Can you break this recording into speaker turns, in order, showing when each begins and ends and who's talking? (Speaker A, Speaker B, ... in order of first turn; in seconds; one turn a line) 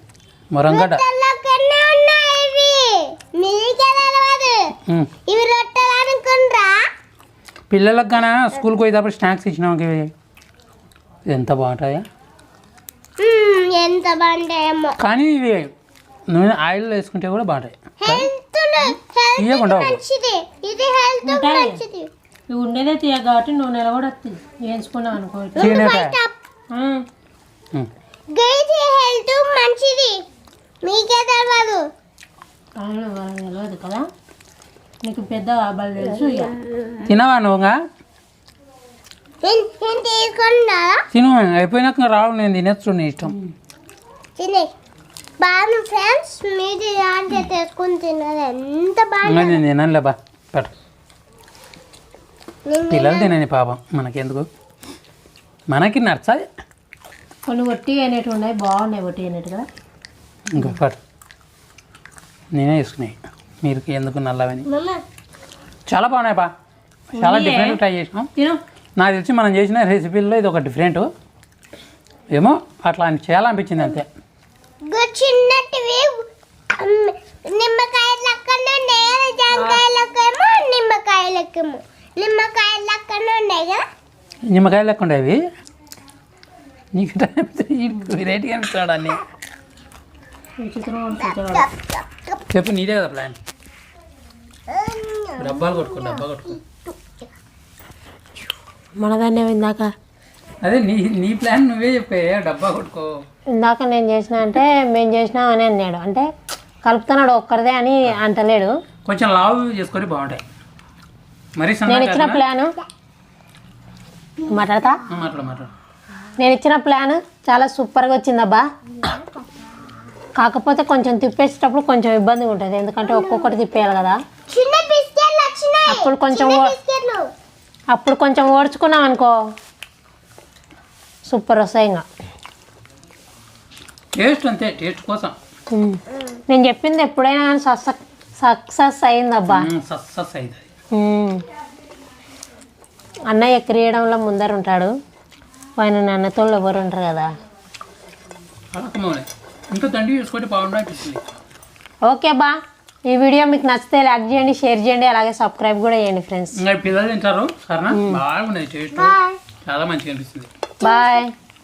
Speaker A: 0.5-1.0
Speaker B: 0.7-4.7
Speaker B: 5.3-6.8
Speaker A: 7.7-10.1
Speaker A: 11.2-12.1
Speaker B: 13.2-15.0
Speaker A: 15.0-15.7
Speaker A: 16.3-18.3
Speaker B: 18.0-22.1
Speaker A: 19.4-20.0
Speaker C: 21.2-21.8
Speaker C: 22.5-25.9
Speaker B: 25.6-26.3
Speaker A: 25.6-26.1
Speaker C: 26.7-27.1
Speaker B: 28.3-30.2
Speaker B: 30.8-31.8
Speaker C: 32.8-34.0
Speaker C: 35.0-36.6
Speaker B: 36.6-37.1
Speaker A: 37.1-37.8
Speaker B: 39.4-41.0
Speaker A: 41.1-43.3
Speaker B: 44.4-44.7
Speaker B: 45.4-49.6
Speaker A: 49.2-50.7
Speaker B: 52.6-53.3
Speaker A: 52.9-54.5
Speaker A: 55.7-56.4
Speaker C: 57.5-59.7
Speaker A: 60.5-61.0
Speaker A: 62.5-64.7
Speaker B: 64.7-65.0
Speaker A: 65.9-66.5
Speaker C: 67.1-67.8
Speaker A: 67.1-68.3
Speaker A: 69.0-71.1
Speaker A: 72.3-74.1
Speaker B: 74.9-83.8
Speaker C: 79.5-79.8
Speaker A: 84.5-85.4
Speaker A: 86.9-89.2
Speaker C: 90.6-91.7
Speaker B: 91.4-92.3
Speaker A: 92.5-93.4
Speaker B: 94.7-97.1
Speaker A: 95.4-96.6
Speaker C: 99.0-99.9
Speaker A: 100.6-103.1
Speaker C: 103.5-106.3
Speaker C: 106.8-108.7
Speaker A: 109.0-110.4
Speaker A: 111.5-112.4
Speaker C: 111.9-112.7
Speaker C: 114.5-115.0
Speaker A: 115.1-115.7
Speaker C: 116.4-118.6
Speaker C: 120.3-124.2
Speaker B: 123.0-123.5
Speaker B: 124.5-127.3
Speaker C: 125.9-126.7
Speaker C: 127.9-129.4
Speaker C: 131.3-132.0
Speaker A: 134.1-135.3
Speaker C: 135.7-139.7
Speaker A: 139.5-140.6
Speaker C: 140.9-141.4
Speaker C: 143.3-144.9
Speaker C: 145.8-147.3
Speaker A: 148.7-151.2
Speaker C: 152.1-152.6
Speaker C: 153.1-156.6
Speaker A: 156.6-160.5
Speaker C: 157.9-158.2
Speaker B: 158.9-159.4
Speaker B: 160.8-161.2
Speaker C: 160.8-161.3